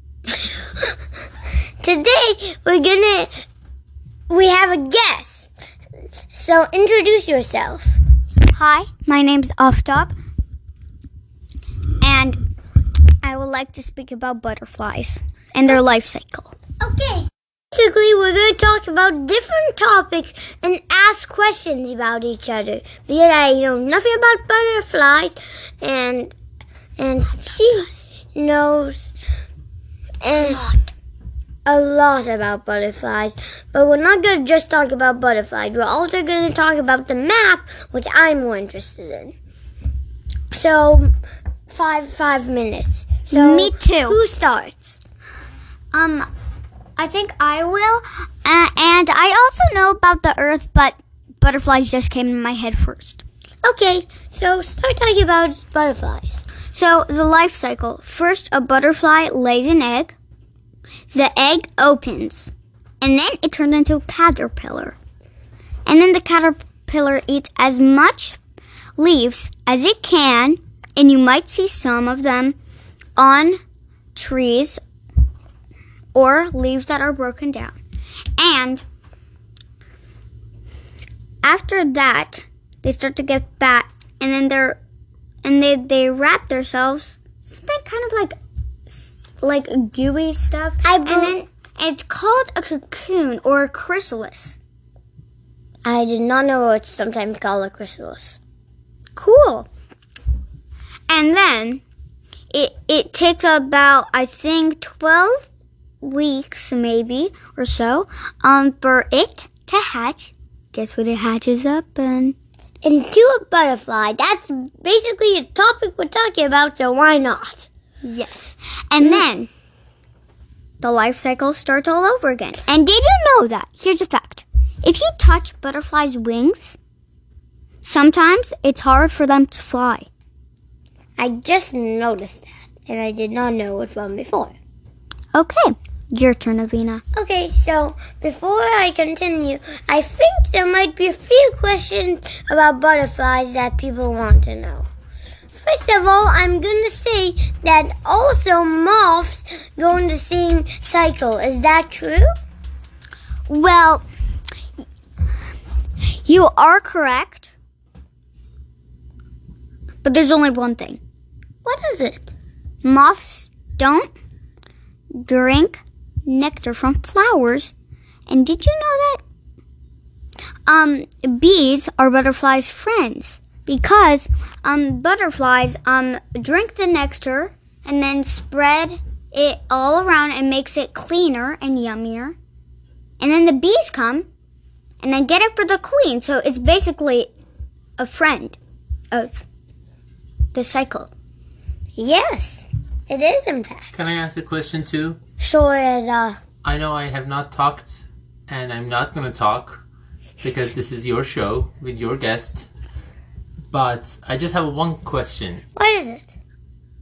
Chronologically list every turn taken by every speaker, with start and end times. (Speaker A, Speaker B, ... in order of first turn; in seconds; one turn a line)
Speaker A: 1.8-3.3
Speaker A: 4.3-5.5
Speaker A: 6.3-7.9
Speaker B: 8.5-10.1
Speaker B: 12.0-12.4
Speaker B: 13.2-16.5
Speaker A: 16.8-26.3
Speaker A: 27.0-29.1
Speaker A: 30.2-30.6
Speaker B: 30.5-30.8
Speaker A: 31.6-39.3
Speaker A: 40.5-41.1
Speaker A: 41.7-45.0
Speaker B: 43.3-44.2
Speaker B: 45.9-46.3
Speaker B: 47.0-53.2
Speaker A: 53.6-56.4
Speaker B: 56.7-60.1
Speaker B: 61.1-65.0
Speaker B: 65.8-68.4
Speaker B: 69.0-72.5
Speaker B: 73.2-73.6
Speaker B: 74.2-74.8
Speaker B: 76.1-77.8
Speaker B: 78.4-78.8
Speaker B: 81.4-84.8
Speaker B: 85.4-88.3
Speaker B: 88.9-94.6
Speaker A: 90.8-91.3
Speaker A: 95.8-98.4
Speaker B: 99.2-99.7
Speaker B: 101.1-101.8
Speaker B: 102.5-105.4
Speaker B: 106.0-112.3
Speaker A: 112.8-117.7
Speaker B: 118.0-119.5
Speaker A: 119.0-119.3
Speaker B: 120.8-126.8
Speaker B: 127.8-130.1
Speaker A: 131.2-134.5
Speaker B: 135.3-137.0
Speaker A: 137.1-144.9
Speaker A: 145.5-152.3
Speaker B: 153.5-154.1
Speaker B: 156.2-157.5
Speaker B: 160.0-161.0
Speaker A: 161.6-162.3
Speaker B: 162.8-164.1
Speaker B: 165.2-167.7
Speaker B: 168.3-169.2
Speaker B: 170.7-182.3
Speaker B: 183.2-184.3
Speaker B: 185.0-187.3
Speaker B: 188.0-188.6
Speaker B: 189.1-189.4
Speaker B: 190.5-191.1
Speaker A: 191.9-193.9
Speaker C: 193.9-195.2
Speaker A: 195.4-196.4
Speaker C: 196.6-199.8
Speaker C: 200.4-202.7
Speaker C: 203.7-205.6
Speaker A: 205.8-206.3